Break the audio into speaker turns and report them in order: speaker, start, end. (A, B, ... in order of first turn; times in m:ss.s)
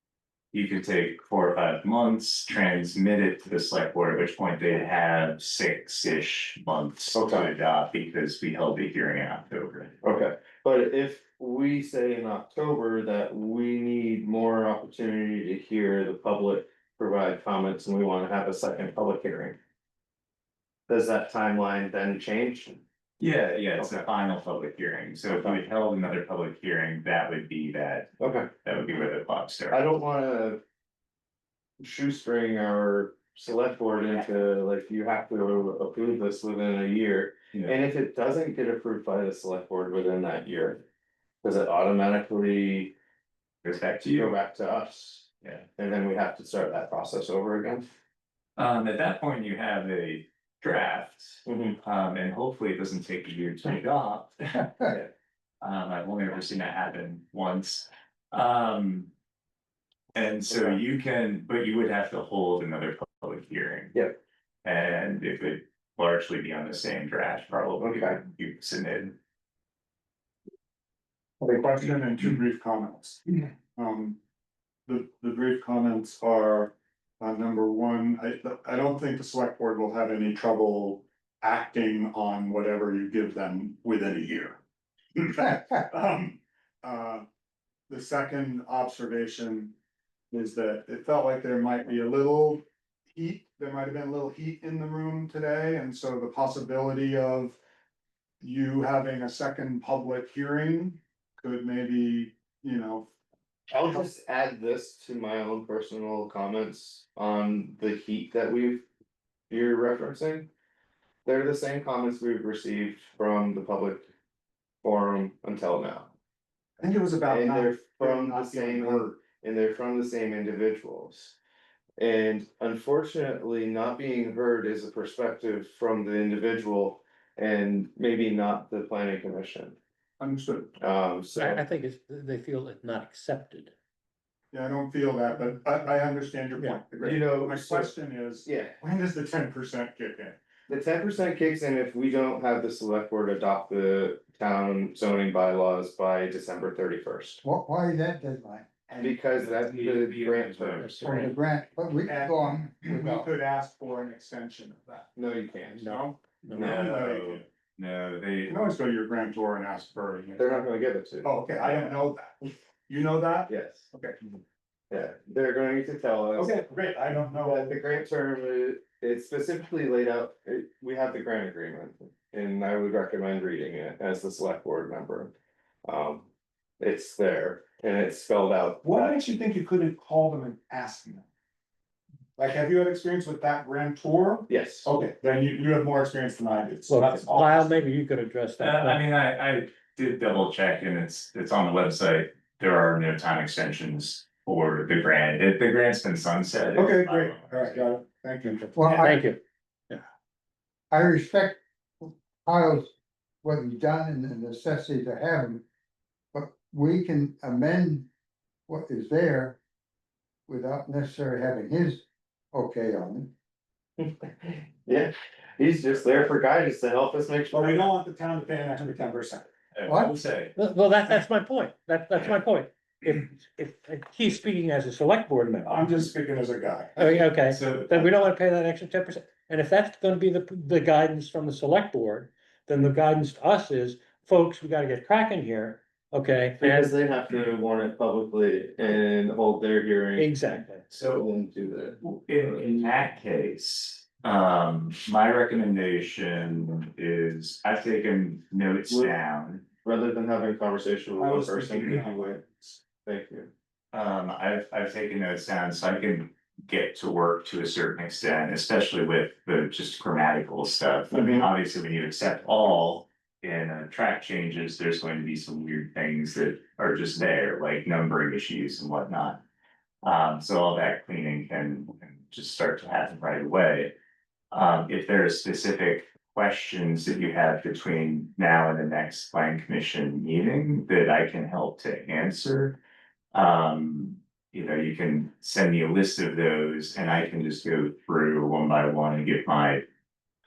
0:00.5-0:10.0 A
0:07.1-0:07.5 B
0:10.0-0:19.6 B
0:20.9-0:22.8 B
0:23.2-0:28.1 A
0:23.8-0:24.0 B
0:25.3-0:25.6 B
0:28.2-0:28.5 B
0:28.6-0:29.8 A
0:29.7-0:30.6 B
0:31.8-0:40.8 B
0:41.4-0:42.9 B
0:43.6-0:44.3 A
0:44.0-0:47.8 B
0:48.6-0:54.9 A
0:51.4-0:51.8 B
0:55.6-0:59.1 A
1:00.2-1:04.0 A
1:04.6-1:09.1 A
1:07.8-1:08.2 B
1:11.4-1:14.2 C
1:14.9-1:24.6 C
1:25.2-1:27.2 C
1:27.9-1:29.7 C
1:30.3-1:32.6 C
1:33.1-1:37.6 C
1:38.4-1:43.1 C
1:43.7-1:48.9 B
1:49.5-1:50.5 B
1:51.2-1:54.1 B
1:54.8-1:56.1 B
1:56.8-1:59.1 C
1:57.3-2:01.4 B
2:02.0-2:09.8 B
2:10.2-2:10.7 C
2:10.8-2:11.6 B
2:11.3-2:13.7 D
2:14.5-2:20.4 C
2:17.0-2:18.8 B
2:20.7-2:27.4 B
2:27.4-2:28.7 E
2:28.9-2:29.2 C
2:29.0-2:30.9 B
2:29.4-2:31.3 A
2:30.8-2:31.3 D
2:31.0-2:33.3 E
2:32.0-2:35.1 C
2:35.2-2:35.9 B
2:35.8-2:37.0 D
2:35.8-2:37.4 C
2:36.5-2:38.5 A
2:38.5-2:40.6 C
2:40.4-2:41.9 B
2:41.2-2:44.2 C
2:43.5-2:43.9 B
2:44.9-2:46.5 B
2:46.4-2:47.8 C
2:47.4-2:55.3 B
2:55.8-2:56.3 B
2:56.8-2:59.2 B
2:58.8-3:01.2 C
3:02.4-3:07.7 C
3:04.5-3:04.9 B
3:06.9-3:09.0 D
3:08.6-3:17.8 A
3:16.7-3:19.2 C
3:18.6-3:19.4 D
3:18.7-3:19.2 E
3:20.9-3:22.9 E
3:23.4-3:25.6 E
3:26.3-3:28.1 E
3:28.7-3:29.6 E
3:30.5-3:33.3 E
3:34.0-3:37.9 B
3:37.5-3:39.5 C
3:39.7-3:40.5 A
3:39.9-3:40.1 E
3:40.6-3:45.9 D
3:45.6-3:47.2 C
3:47.0-3:56.9 D
3:47.5-3:48.1 A
3:56.6-4:00.4 B
4:00.2-4:00.8 D
4:00.9-4:02.0 B
4:00.9-4:01.2 A
4:02.0-4:09.6 A
4:08.9-4:09.1 B
4:09.8-4:12.4 B
4:11.2-4:12.8 C
4:13.0-4:13.5 B
4:13.9-4:29.4 A
4:21.1-4:21.5 B
4:30.0-4:33.9 A
4:34.5-4:42.8 A
4:43.3-4:49.8 A